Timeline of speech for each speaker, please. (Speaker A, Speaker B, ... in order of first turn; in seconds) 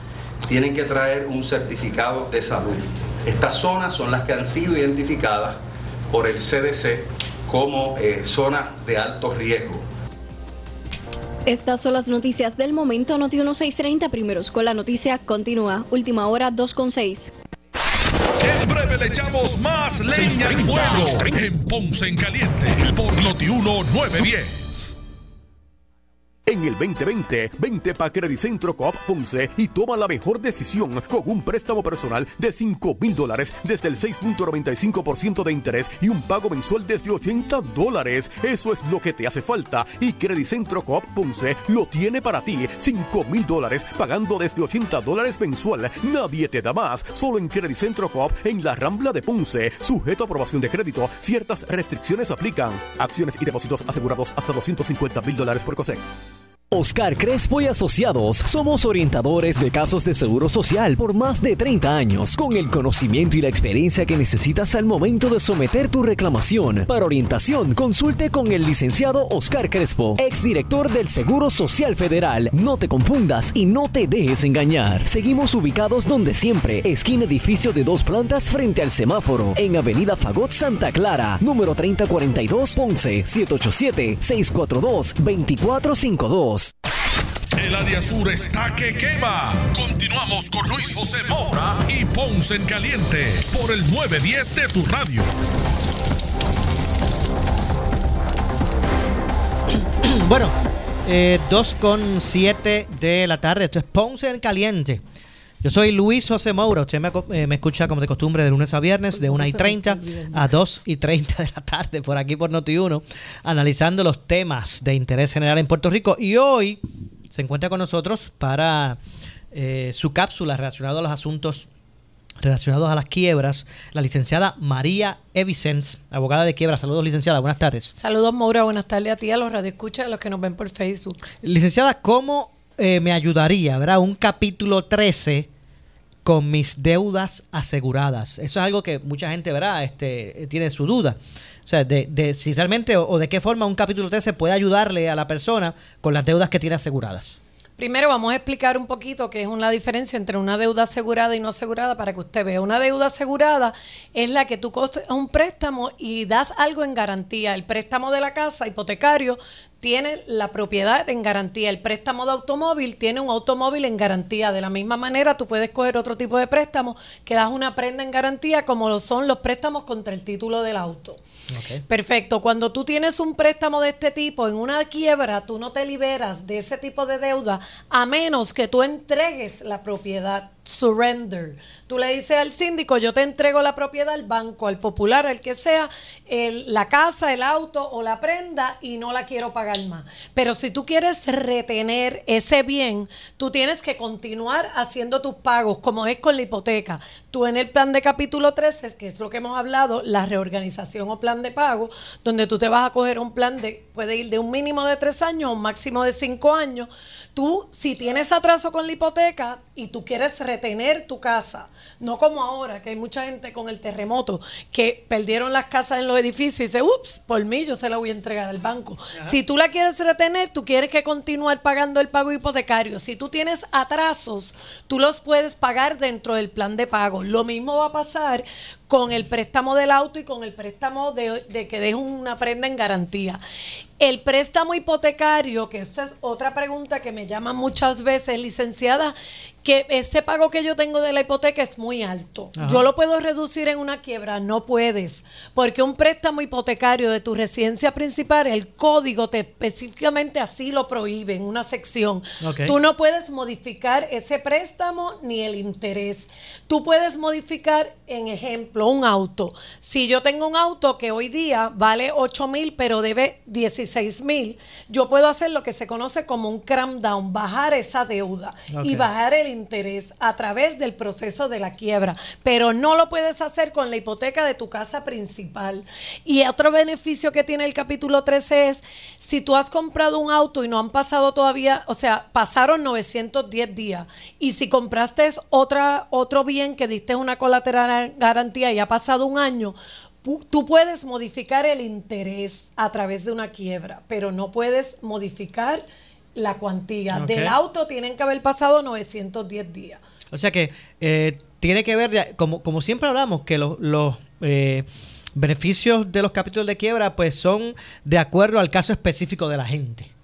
Speaker A: 0.5-9.8
Speaker B: 11.5-17.3
Speaker C: 18.4-24.9, 87.6-95.3
Speaker D: 26.5-56.0
Speaker E: 56.7-86.7
Speaker F: 100.0-105.0, 105.6-116.8, 117.3-119.0, 119.5-121.7, 122.4-127.9, 131.4-135.5, 136.2-147.4, 171.5-171.8, 242.6-242.8, 252.4-252.8, 268.7-269.1, 297.1-297.6, 300.3-310.1
Speaker G: 109.2-110.6, 128.0-131.2, 147.8-171.2, 171.9-233.4, 234.0-295.8, 296.4-300.0